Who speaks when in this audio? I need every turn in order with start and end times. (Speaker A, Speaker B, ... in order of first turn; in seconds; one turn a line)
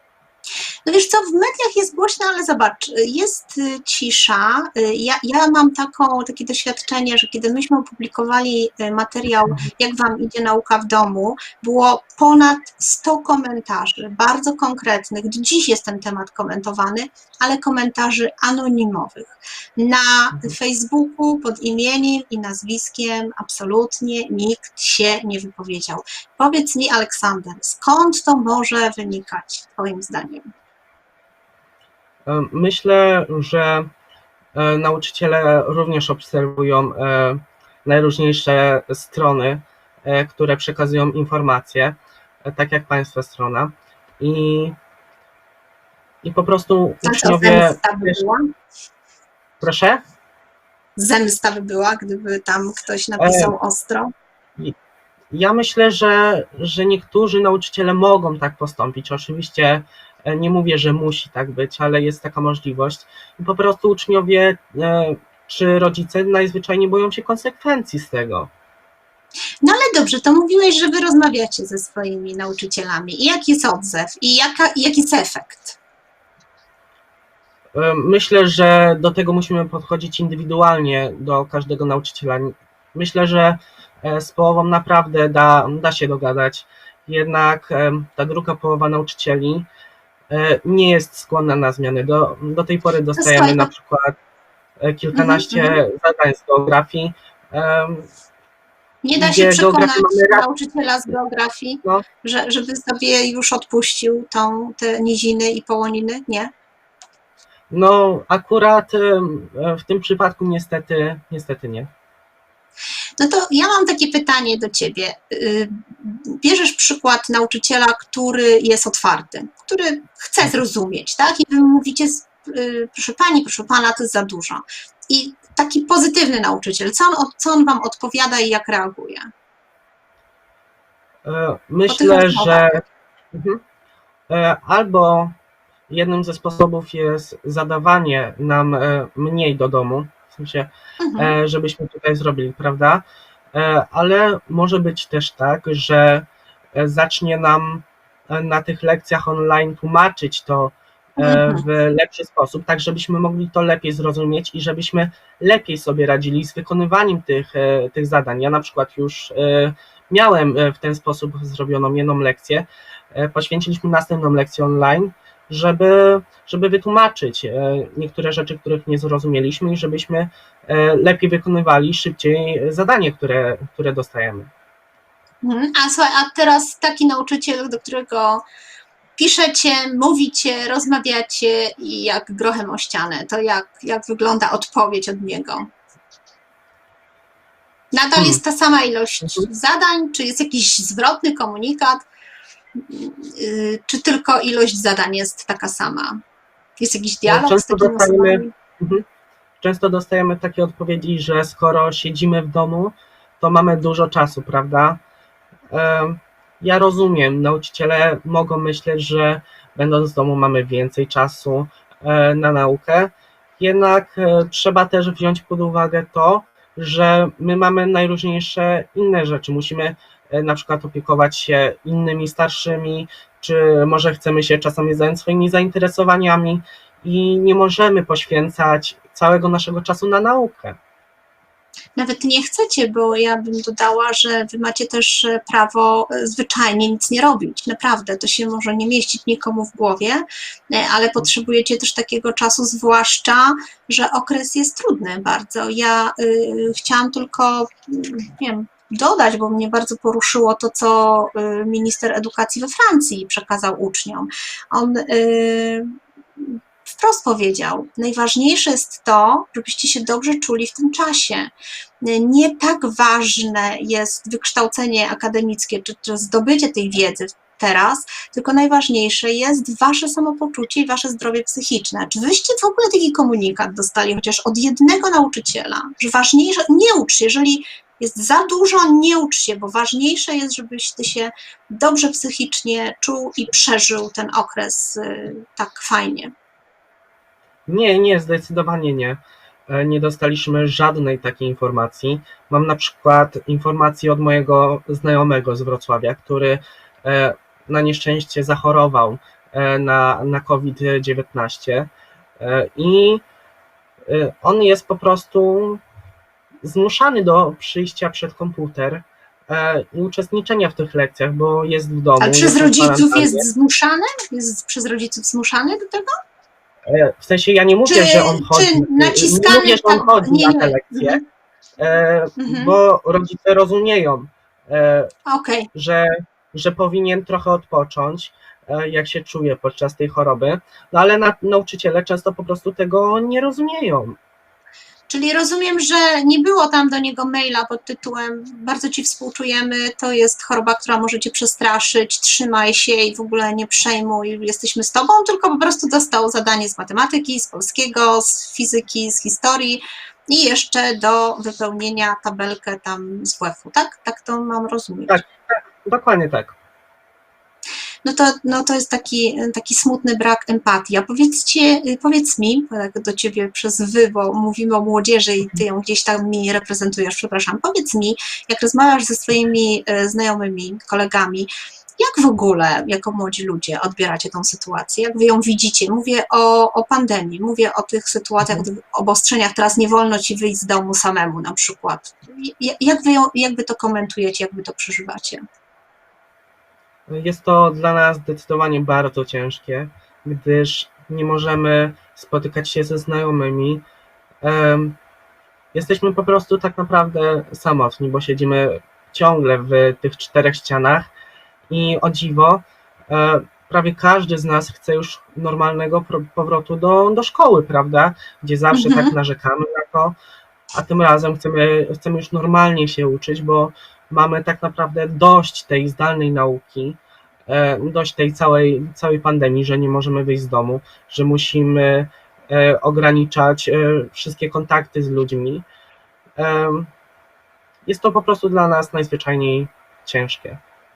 Speaker A: 0.9-30.5
Speaker B: 32.3-33.9
Speaker B: 34.5-44.8
Speaker B: 46.2-48.2
Speaker A: 47.0-48.5
Speaker B: 49.6-50.0
Speaker A: 51.0-54.1
Speaker B: 53.2-53.5
Speaker B: 55.3-68.5
Speaker A: 69.6-75.8
Speaker B: 77.7-89.7
Speaker B: 90.3-94.2
Speaker A: 93.2-93.7
Speaker B: 94.8-98.1
Speaker A: 95.1-95.8
Speaker A: 99.0-106.5
Speaker B: 99.2-100.5
Speaker B: 107.7-111.9
Speaker A: 113.2-129.3
Speaker B: 131.2-133.6
Speaker A: 131.9-132.8
Speaker B: 134.3-135.3
Speaker B: 135.9-174.5
Speaker A: 141.0-141.3
Speaker A: 151.2-151.7
Speaker A: 175.4-178.4
Speaker A: 179.2-185.7
Speaker A: 187.9-192.0
Speaker B: 189.2-189.5
Speaker A: 192.8-196.2
Speaker A: 196.8-198.5
Speaker B: 197.3-199.0
Speaker B: 199.6-205.0
Speaker B: 205.7-230.8
Speaker A: 232.0-261.5
Speaker A: 262.0-286.3
Speaker B: 287.7-303.2
Speaker B: 304.1-305.8
Speaker B: 306.6-313.4
Speaker A: 312.2-316.1
Speaker B: 316.9-321.2
Speaker A: 317.9-321.2
Speaker B: 321.8-325.1
Speaker A: 322.4-322.8
Speaker A: 325.3-325.7
Speaker B: 325.7-334.2
Speaker A: 335.1-355.2
Speaker B: 355.1-356.6
Speaker A: 358.0-385.4
Speaker B: 387.1-393.8
Speaker B: 394.4-395.0
Speaker B: 395.7-401.1
Speaker B: 401.7-410.1
Speaker A: 408.7-409.1
Speaker B: 410.7-425.7
Speaker B: 426.4-426.9
Speaker B: 427.9-430.6